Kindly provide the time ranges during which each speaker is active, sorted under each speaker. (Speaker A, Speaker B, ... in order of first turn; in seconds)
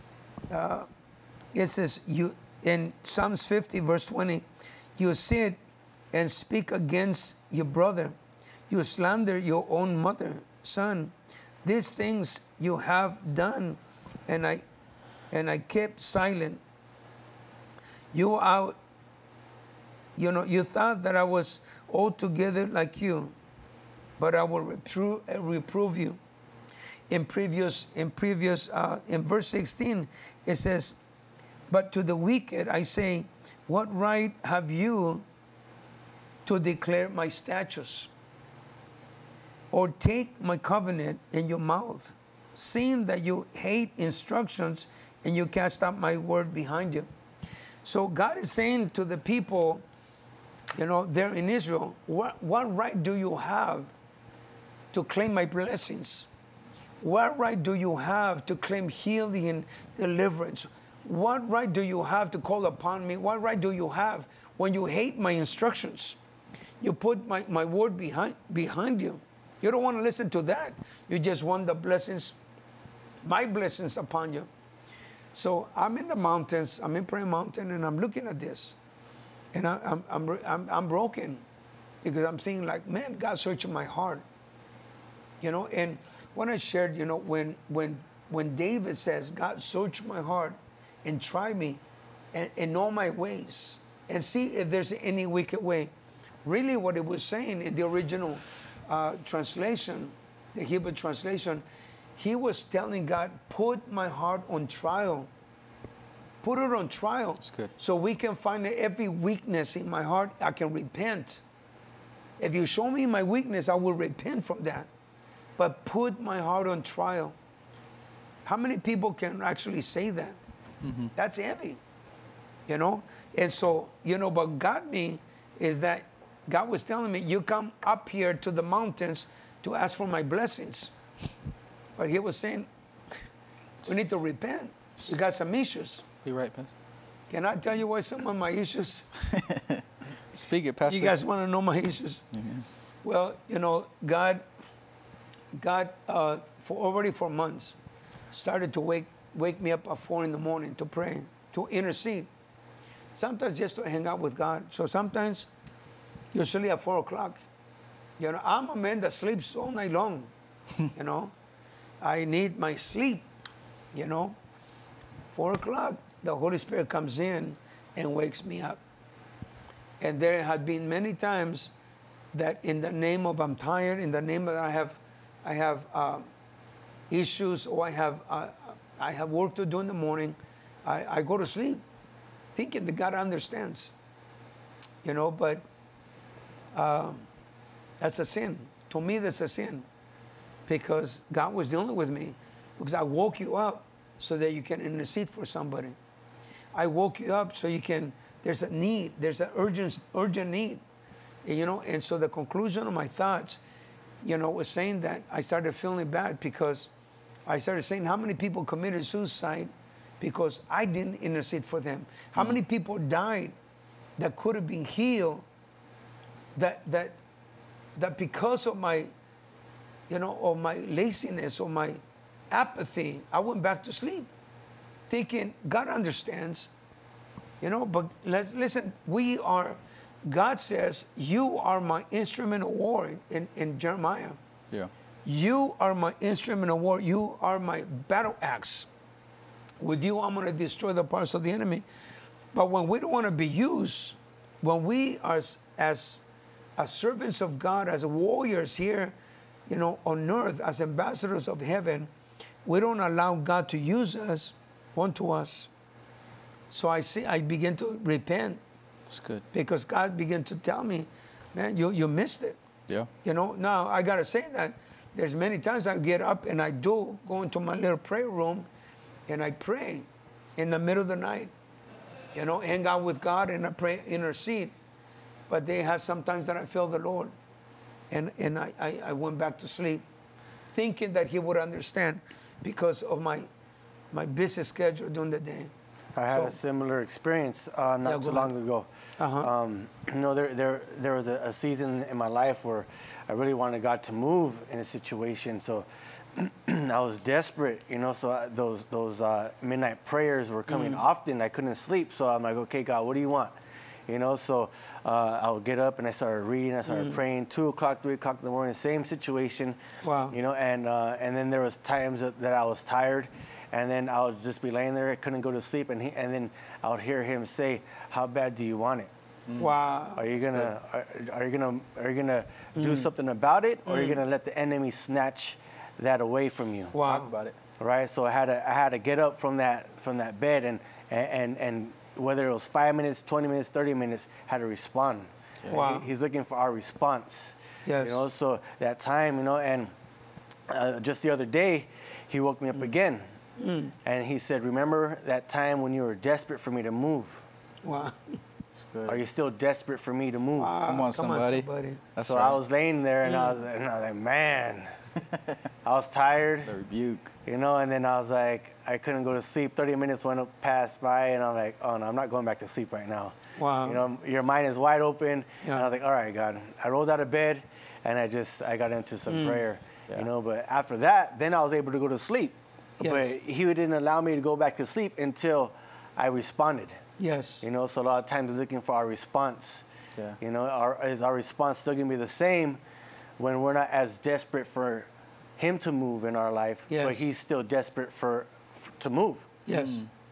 Speaker A: 0.5-0.9, 1.5-4.5, 5.0-5.6, 6.1-8.2, 8.7-14.6, 15.3-16.6, 18.1-18.8, 20.2-23.4, 24.2-26.2, 27.1-31.0, 31.7-35.2, 36.5-38.1, 39.7-47.1, 47.8-49.8, 50.8-53.9, 54.9-56.3, 57.0-66.2, 66.8-72.4, 73.2-74.5, 75.3-78.8, 79.5-81.4, 82.0-84.2, 85.4-91.8, 92.3-95.9, 96.5-101.6, 102.2-105.3, 106.4-111.4, 112.4-114.9, 115.6-117.3, 118.5-120.4, 121.2-121.8, 122.7-130.9, 132.0-132.7, 133.8-136.1, 137.3-139.1, 140.9-142.2, 143.0-144.4, 145.6-147.8, 148.3-152.3, 153.2-155.5, 156.3-157.4, 158.2-160.3, 160.9-161.3, 162.0-163.3, 163.9-164.4, 165.3-168.8, 170.0-171.7, 172.3-176.3, 177.1-181.8, 182.6-183.9, 185.0-185.7, 186.8-187.3, 188.0-189.9, 190.7-196.0, 196.7-200.8, 201.4-203.6, 204.2-206.9, 207.5-213.6, 214.2-215.4, 216.6-217.2, 218.0-219.1, 220.1-224.3, 225.1-226.7, 227.6-234.4, 235.2-238.9, 239.8-241.8, 242.5-246.2, 246.8-249.1, 249.7-252.1, 252.7-255.7, 256.7-258.6, 259.5-262.6, 263.2-268.7, 269.3-271.5, 272.3-274.7, 275.5-277.3, 278.1-280.0, 280.7-283.5, 284.1-285.7, 286.3-286.6, 288.1-288.5, 289.2-289.5, 300.7-301.0, 306.9-307.2, 310.0-310.4, 319.6-320.2, 322.8-323.1, 323.9-324.2, 326.9-327.3, 335.7-336.1, 337.9-338.2, 343.6-343.9, 347.8-348.4, 350.6-352.0, 353.2-353.6, 363.6-364.0, 365.6-365.9, 369.3-369.6, 373.0-373.3, 377.2-377.6, 386.9-387.2, 389.7-390.0
Speaker B: 107.5-107.7, 120.8-121.1, 136.2-136.7, 139.3-139.8, 140.3-141.2, 142.3-142.7, 259.1-259.4, 327.0-327.6, 348.8-349.2, 350.9-352.6, 356.6-357.3, 389.7-390.1
Speaker C: 286.1-303.5, 304.1-319.1, 320.2-327.0, 327.8-339.9, 340.7-343.2, 344.0-347.4, 349.1-350.9, 352.2-354.9, 355.8-356.7, 357.4-377.0, 377.6-379.8, 380.4-382.8, 383.4-389.5